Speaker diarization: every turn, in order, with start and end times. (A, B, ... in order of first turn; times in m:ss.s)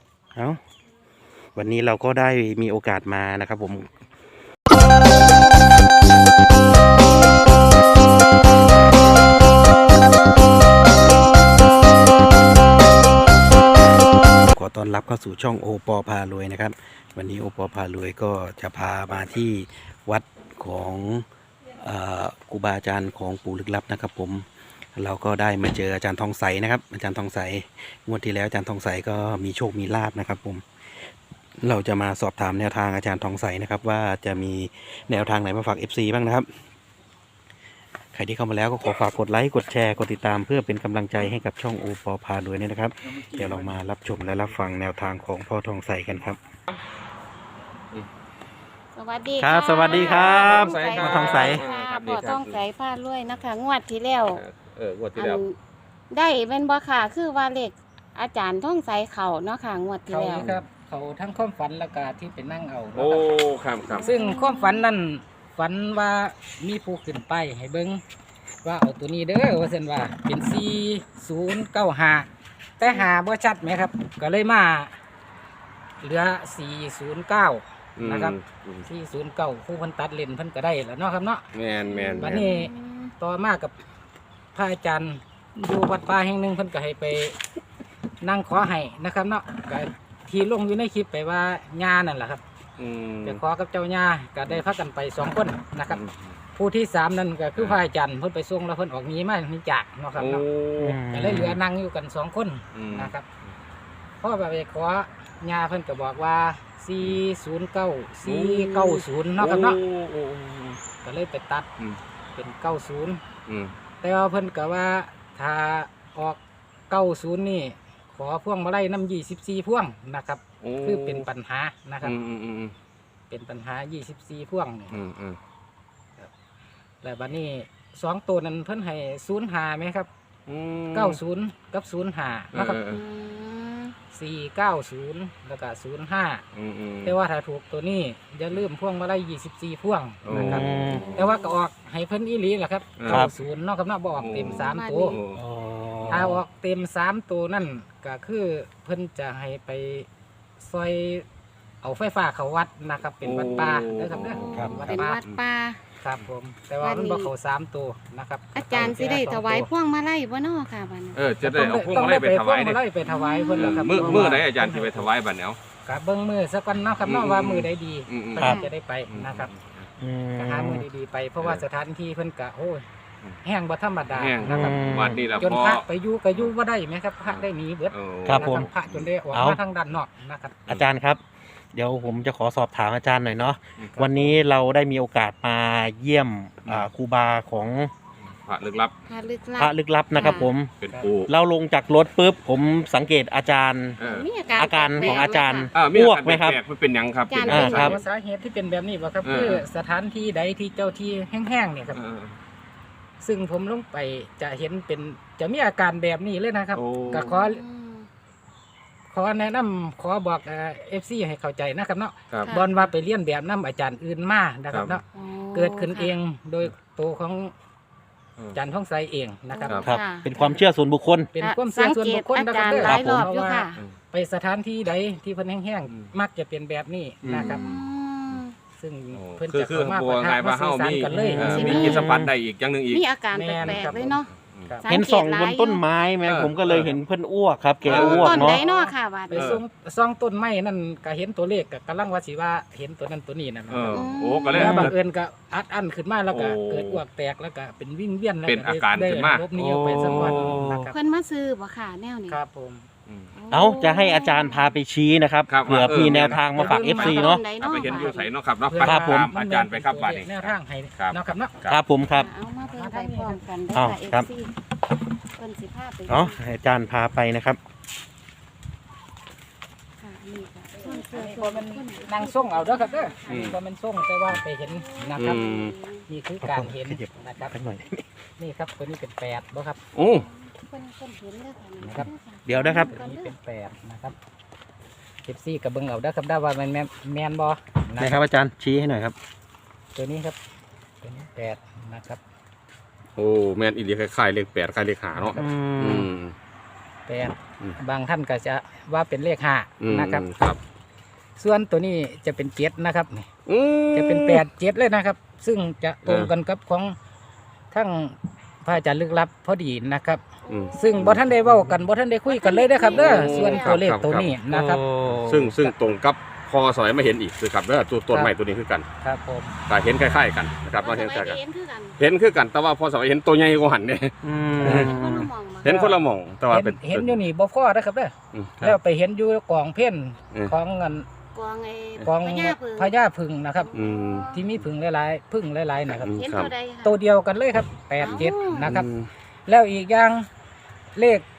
0:01.6-0:03.9 A
0:14.4-0:21.3 A
0:21.8-0:30.6 A
0:31.6-0:36.5 A
0:38.1-0:46.4 A
0:43.2-0:43.6 B
0:49.0-0:54.4 C
0:49.4-0:51.6 A
0:49.8-0:52.6 B
0:54.3-0:55.4 B
0:55.2-0:55.6 C
0:56.1-1:00.5 C
1:00.1-1:03.3 D
1:03.0-1:04.1 B
1:03.9-1:04.8 C
1:04.0-1:08.0 D
1:08.6-1:12.3 D
1:12.8-1:14.9 D
1:16.0-1:21.5 D
1:18.0-1:18.8 B
1:21.5-1:22.4 B
1:21.9-1:23.1 C
1:22.2-1:23.8 D
1:24.6-1:27.4 D
1:28.2-1:32.4 D
1:32.8-1:33.4 B
1:33.2-1:36.0 D
1:35.9-1:36.4 B
1:36.6-1:43.3 D
1:37.6-1:37.8 B
1:40.2-1:41.0 B
1:40.8-1:41.6 A
1:42.7-1:43.1 B
1:44.2-1:49.8 D
1:48.2-1:50.8 B
1:51.0-1:51.7 D
1:52.4-1:53.2 D
1:53.5-1:53.7 B
1:54.0-1:56.4 D
1:56.9-2:02.2 D
2:00.6-2:01.3 B
2:02.0-2:02.7 B
2:03.3-2:05.0 D
2:04.9-2:05.4 B
2:07.0-2:10.1 D
2:10.5-2:11.2 B
2:10.9-2:12.8 D
2:12.5-2:13.0 B
2:12.9-2:14.0 C
2:14.1-2:16.4 D
2:16.5-2:17.2 B
2:17.0-2:25.2 D
2:20.2-2:21.1 B
2:20.3-2:21.2 A
2:20.9-2:21.6 C
2:23.0-2:23.3 B
2:24.2-2:25.4 B
2:24.3-2:25.2 C
2:25.4-2:26.4 A
2:26.1-2:30.1 D
2:30.6-2:31.3 D
2:31.8-2:35.2 D
2:33.2-2:35.4 B
2:34.1-2:35.8 C
2:34.5-2:35.0 A
2:36.0-2:39.7 D
2:36.8-2:37.3 C
2:38.6-2:41.2 C
2:41.2-2:42.8 B
2:41.4-2:45.1 D
2:43.0-2:44.4 C
2:43.5-2:45.6 B
2:45.9-2:49.5 D
2:47.0-2:48.6 B
2:48.4-2:48.7 C
2:49.1-2:49.9 B
2:50.0-2:50.8 A
2:50.4-2:52.8 D
2:53.4-3:00.7 D
2:54.1-2:55.8 B
2:54.4-2:55.2 A
2:54.8-2:55.5 C
2:57.3-2:59.1 B
2:58.3-2:58.7 A
2:59.3-2:59.6 A
3:00.7-3:01.2 A
3:01.7-3:07.9 A
3:03.8-3:04.4 B
3:08.3-3:08.9 B
3:09.1-3:10.6 C
3:09.6-3:10.7 A
3:10.8-3:11.3 B
3:11.3-3:14.0 A
3:14.0-3:14.3 B
3:14.0-3:15.7 C
3:14.6-3:16.6 A
3:15.7-3:18.0 B
3:17.3-3:18.0 C
3:17.5-3:18.0 A
3:17.6-3:22.0 D
3:19.2-3:19.6 B
3:21.9-3:22.4 B
3:23.2-3:27.6 D
3:26.8-3:27.3 B
3:27.1-3:28.1 C
3:29.1-3:37.5 D
3:32.4-3:32.9 C
3:34.7-3:35.0 B
3:35.1-3:36.1 C
3:38.5-3:40.5 D
3:39.5-3:40.4 C
3:39.9-3:41.3 A
3:41.3-3:47.6 D
3:41.4-3:43.8 C
3:42.7-3:43.3 A
3:47.2-3:48.4 B
3:47.3-3:48.6 C
3:48.8-3:52.0 D
3:49.1-3:53.0 B
3:51.1-3:52.3 A
3:51.4-3:52.2 C
3:52.9-3:54.3 C
3:53.3-3:54.8 D
3:53.6-3:54.0 B
3:54.8-3:55.8 C
3:54.9-3:58.6 A
3:56.2-3:57.0 B
3:57.8-3:58.4 B
3:57.9-3:59.6 C
3:57.9-4:04.0 D
3:59.3-3:59.6 B
4:03.7-4:05.0 B
4:03.9-4:04.8 C
4:04.6-4:04.9 A
4:04.6-4:11.0 D
4:06.3-4:07.0 B
4:08.5-4:09.5 B
4:09.6-4:10.9 A
4:10.9-4:12.4 C
4:12.3-4:12.9 D
4:13.4-4:14.7 C
4:13.5-4:17.4 A
4:15.5-4:21.8 B
4:16.1-4:21.6 D
4:16.6-4:18.3 C
4:18.8-4:19.3 A
4:21.7-4:22.3 A
4:22.1-4:24.5 C
4:22.6-4:23.4 D
4:23.8-4:24.3 A
4:25.4-4:26.4 C
4:26.1-4:27.6 A
4:30.0-4:33.4 C
4:30.8-4:35.5 D
4:33.3-4:33.6 B
4:34.6-4:36.0 C
4:35.2-4:35.8 B
4:36.1-4:37.5 D
4:36.4-4:38.0 A
4:38.4-4:39.8 D
4:40.0-4:40.3 B
4:40.1-4:43.3 C
4:41.9-4:42.9 A
4:42.8-4:44.2 D
4:45.3-4:48.2 D
4:48.0-4:49.2 A
4:50.0-4:50.4 D
4:51.0-4:52.2 D
4:53.2-4:56.3 B
4:55.3-4:56.1 A
4:57.1-5:00.4 D
4:59.8-5:00.6 B
5:01.4-5:03.3 D
5:03.5-5:04.4 B
5:03.9-5:07.0 D
5:06.0-5:06.3 B
5:07.7-5:10.2 D
5:10.4-5:11.0 C
5:10.5-5:11.2 B
5:10.8-5:14.9 D
5:12.3-5:13.9 C
5:12.9-5:14.3 B
5:14.5-5:15.6 A
5:15.1-5:18.9 B
5:19.0-5:19.6 D
5:19.7-5:21.4 B
5:20.8-5:22.0 C
5:22.0-5:24.9 B
5:24.2-5:25.3 A
5:24.6-5:25.8 C
5:24.6-5:24.9 D
5:25.6-5:27.2 B
5:25.6-5:31.1 D
5:28.3-5:28.8 B
5:31.3-5:32.9 C
5:32.0-5:33.8 D
5:33.6-5:34.4 C
5:33.7-5:34.3 B
5:34.3-5:36.3 D
5:35.9-5:36.5 B
5:36.2-5:37.0 C
5:36.8-5:38.9 D
5:38.0-5:38.7 C
5:38.0-5:39.1 B
5:39.5-5:40.3 D
5:41.0-5:41.2 D